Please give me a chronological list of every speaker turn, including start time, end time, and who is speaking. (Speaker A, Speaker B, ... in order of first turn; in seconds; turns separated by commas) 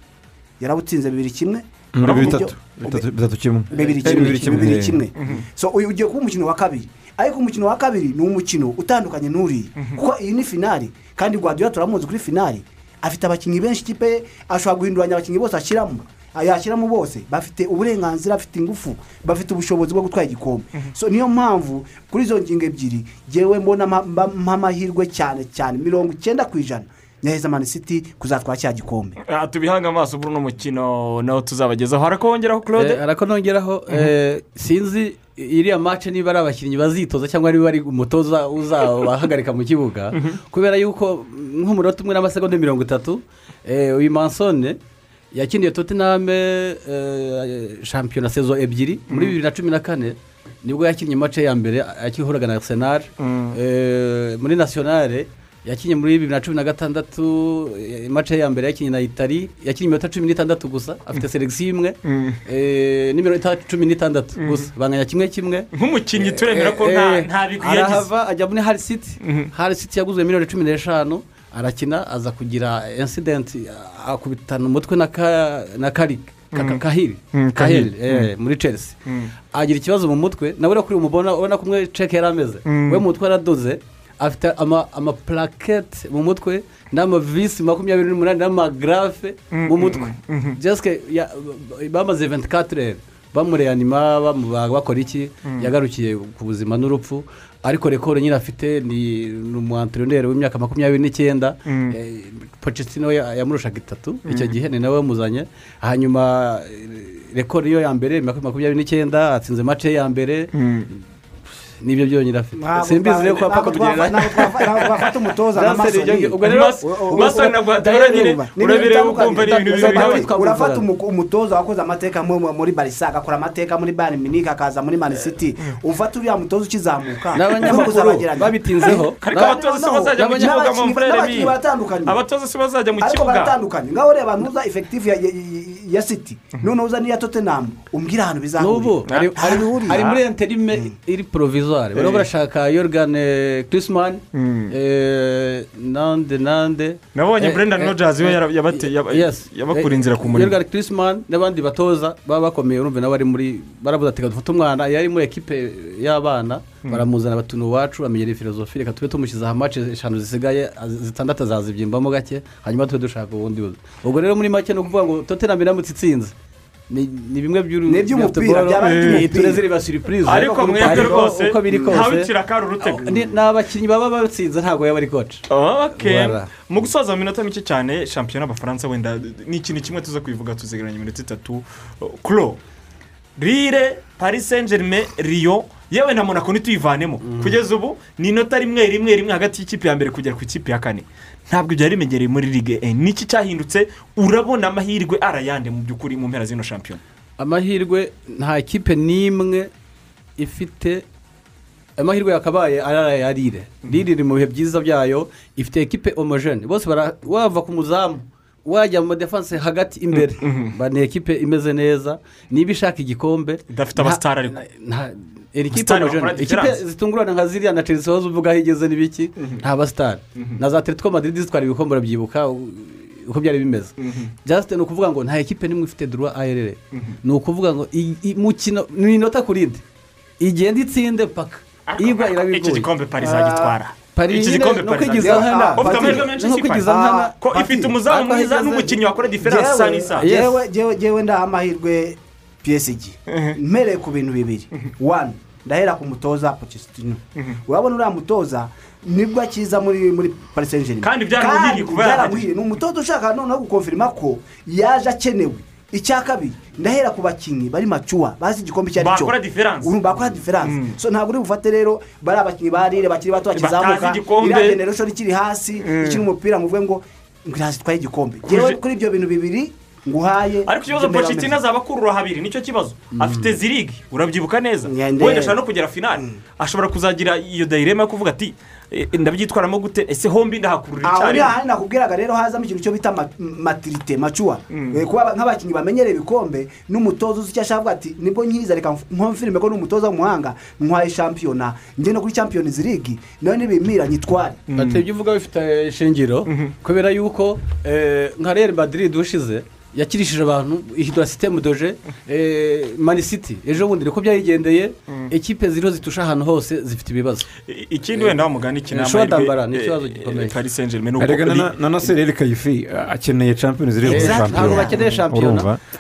Speaker A: 0.6-3.0, Speaker B: 1.9-5.0, Speaker C: 2.0-2.5, Speaker A: 3.7-29.2, Speaker D: 3.8-4.8, Speaker C: 5.2-5.4, Speaker C: 29.2-33.0, Speaker D: 32.8-44.8, Speaker C: 40.1-40.4, Speaker D: 45.3-79.0, Speaker C: 49.1-49.4, Speaker C: 53.2-53.6, Speaker C: 62.0-62.4, Speaker C: 64.4-64.7, Speaker C: 65.7-68.1, Speaker C: 69.2-69.5, Speaker C: 76.5-78.3, Speaker C: 79.1-79.3, Speaker D: 79.5-110.5, Speaker C: 82.7-83.0, Speaker C: 89.5-90.6, Speaker C: 95.5-95.7, Speaker C: 101.7-102.0, Speaker C: 104.3-104.6, Speaker C: 110.5-110.9, Speaker D: 111.8-118.2, Speaker A: 112.5-132.2, Speaker C: 114.8-115.1, Speaker C: 116.4-120.3, Speaker D: 119.4-120.9, Speaker C: 125.2-125.8, Speaker C: 127.3-128.0, Speaker D: 127.3-130.8, Speaker C: 128.9-133.6, Speaker A: 133.0-140.2, Speaker D: 138.6-166.3, Speaker C: 139.1-140.2, Speaker C: 141.9-142.3, Speaker C: 144.3-144.8, Speaker C: 147.2-150.6, Speaker D: 166.9-176.6, Speaker A: 167.9-169.8, Speaker C: 168.8-169.3, Speaker C: 170.3-173.1, Speaker A: 170.5-172.1, Speaker A: 173.0-173.4, Speaker C: 175.5-182.6, Speaker C: 183.4-197.0, Speaker D: 187.2-187.6, Speaker D: 197.4-199.7, Speaker D: 200.4-201.0, Speaker D: 202.0-223.9, Speaker C: 210.1-210.8, Speaker C: 213.7-214.6, Speaker C: 215.7-216.8, Speaker C: 219.4-219.6, Speaker C: 220.4-220.6, Speaker C: 224.0-224.3, Speaker D: 224.4-229.8, Speaker C: 226.9-227.2, Speaker D: 230.4-232.9, Speaker C: 231.9-240.3, Speaker A: 233.2-233.8, Speaker D: 234.1-237.4, Speaker A: 235.2-238.6, Speaker D: 238.1-238.9, Speaker A: 239.4-271.6, Speaker D: 240.2-240.6, Speaker C: 243.3-243.6, Speaker C: 251.0-252.5, Speaker C: 259.0-261.0, Speaker C: 263.5-264.8, Speaker C: 265.8-266.2, Speaker C: 268.5-268.8, Speaker C: 270.6-281.6, Speaker D: 273.1-273.6, Speaker A: 274.9-275.6, Speaker A: 281.0-294.6, Speaker C: 284.7-285.0, Speaker C: 294.7-295.0, Speaker D: 294.7-307.5, Speaker C: 296.5-296.8, Speaker C: 307.7-312.1, Speaker D: 308.1-310.6, Speaker B: 311.2-315.8, Speaker D: 314.0-315.7, Speaker A: 314.1-315.2